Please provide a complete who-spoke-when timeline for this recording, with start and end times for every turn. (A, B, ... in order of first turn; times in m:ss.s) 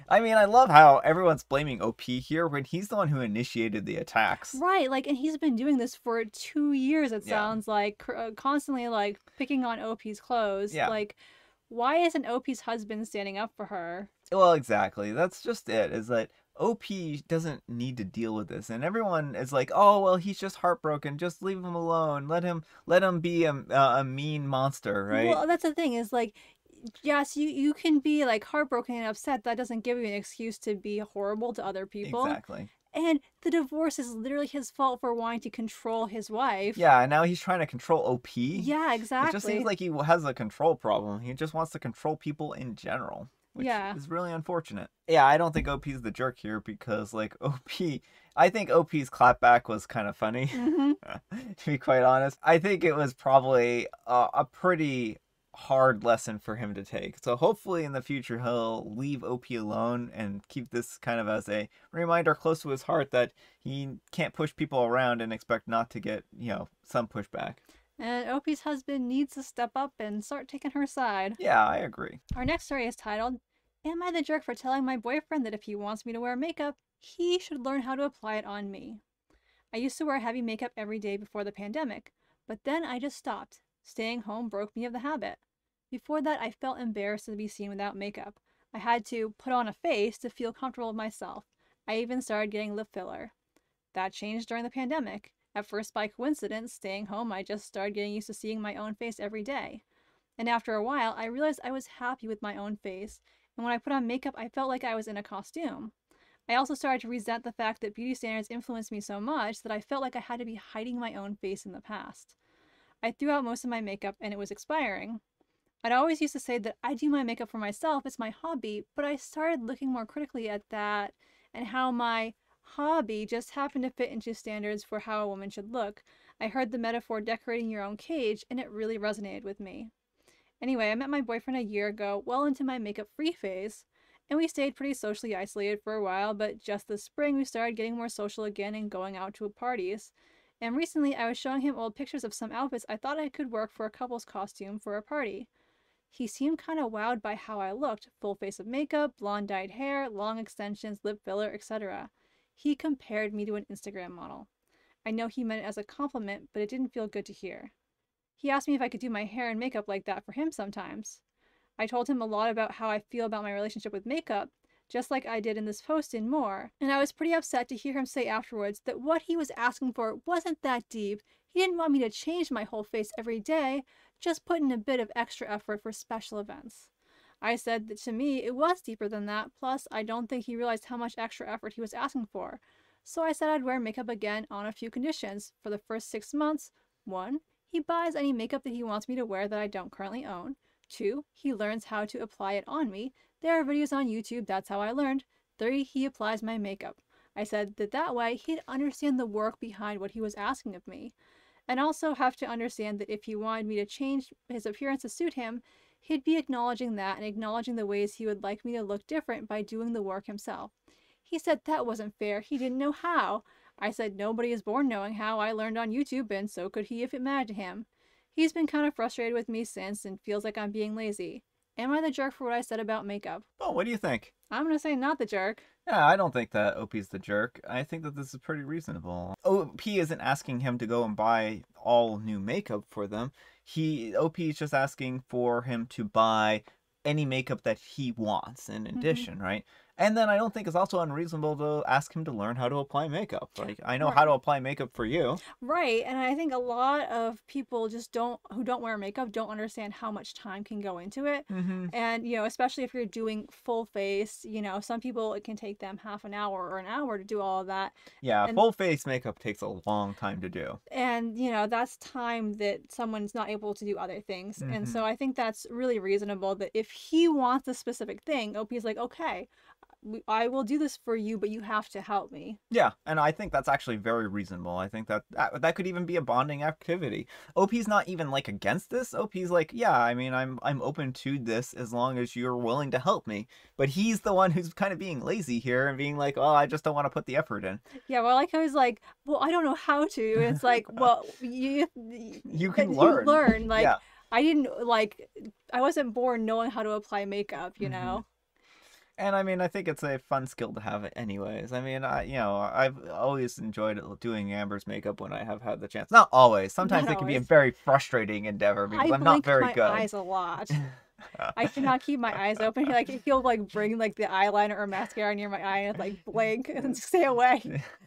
0:00.1-0:04.6 A
0:04.5-0:14.1 B
0:07.2-0:07.5 A
0:10.7-0:11.0 A
0:14.3-0:25.4 A
0:25.1-0:32.4 B
0:32.0-0:32.7 A
0:32.9-0:36.8 B
0:36.8-1:07.6 A
0:38.5-0:39.7 B
0:43.6-0:44.0 B
0:50.5-0:51.0 B
1:08.0-1:11.4 B
1:11.4-1:12.2 A
1:12.3-1:19.0 B
1:19.7-1:33.3 B
1:33.9-1:39.8 B
1:40.4-1:45.9 B
1:46.5-1:52.3 B
1:53.0-1:55.2 B
1:55.8-2:09.9 B
2:10.6-2:25.5 B
2:26.1-2:34.5 B
2:35.0-2:37.7 B
2:38.4-2:41.2 B
2:41.8-2:56.9 B
2:57.4-3:21.1 B
3:21.7-3:30.7 B
3:31.2-3:43.4 B
3:43.6-3:44.3 A
3:44.5-3:45.6 B
3:45.8-4:05.4 A
3:58.9-3:59.3 B
4:04.0-4:04.3 B
4:05.6-4:18.6 B
4:11.5-4:11.9 A
4:18.2-4:20.8 A
4:20.9-4:29.5 B
4:24.6-4:25.0 A
4:30.0-4:32.6 B
4:32.7-4:47.8 A
4:48.0-4:58.2 B
4:52.4-4:54.0 A
4:57.8-4:58.2 A
4:59.2-5:10.1 A
5:06.8-5:07.5 B
5:08.9-5:10.8 B
5:11.5-5:17.7 B